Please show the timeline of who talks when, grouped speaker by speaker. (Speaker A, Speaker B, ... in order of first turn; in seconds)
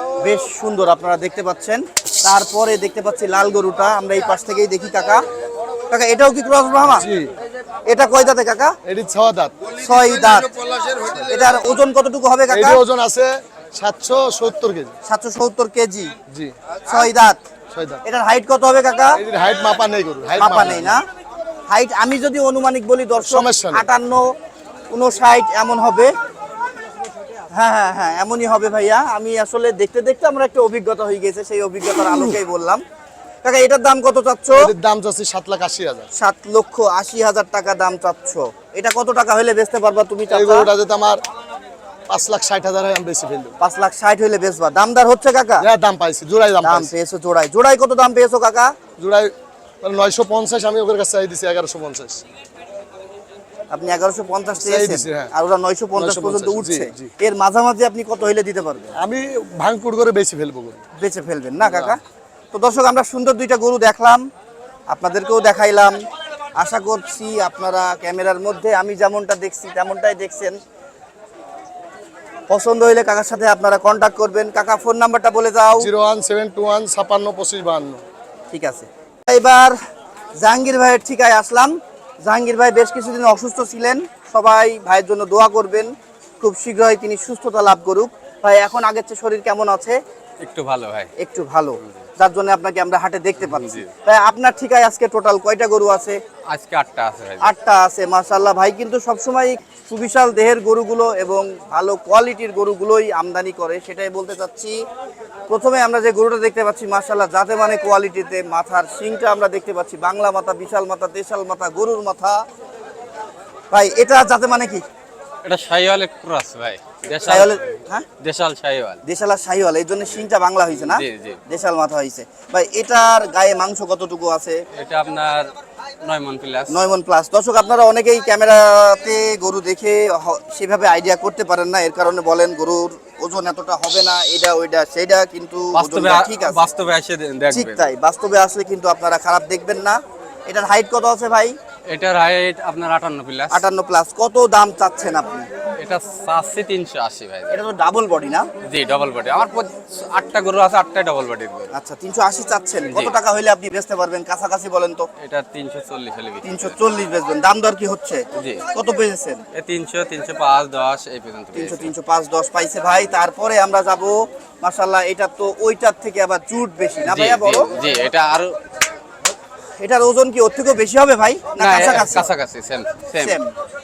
Speaker A: 0.2-5.2, 5.9-7.1, 7.9-8.8, 9.8-10.5, 11.2-12.8, 15.0-16.1, 16.9-17.4, 18.0-19.2, 20.4-21.0, 21.7-24.2, 24.9-26.1, 27.5-32.8, 33.4-34.7, 36.1-40.7, 43.6-45.6, 46.6-48.7, 53.7-58.9, 61.0-62.0, 62.5-64.3, 64.9-66.0, 66.6-70.6, 72.5-75.9, 78.5-79.8, 80.4-90.0, 91.2-96.2, 97.4-104.8, 105.5-112.4, 113.7-114.8, 117.2-118.0, 119.0-124.6, 126.7-136.6, 137.5-141.6, 143.5-145.5, 147.5-148.5, 151.7-155.1, 156.4-159.4, 161.5-167.7, 169.8-172.3, 173.2-173.5
Speaker B: 6.9-7.3, 8.8-9.5, 10.9-11.2, 12.5-14.9, 16.3-16.5, 17.7-18.0, 19.1-21.0, 23.1-23.9, 34.5-36.1, 40.3-41.2, 42.1-43.5, 45.6-46.9, 49.0-52.2, 54.5-55.3, 56.0-57.1, 59.0-60.8, 61.6-62.0, 75.8-78.0
Speaker C: 90.4-91.1, 93.4-93.9, 96.5-97.5, 115.4-117.6, 118.2-119.0, 120.7-121.4, 124.7-125.5, 126.0-126.7, 135.7-137.9, 141.9-143.6, 145.8-147.6, 148.6-151.7, 152.9-153.2, 155.2-156.8, 158.3-158.6, 159.5-161.9, 167.1-168.6, 171.6-173.4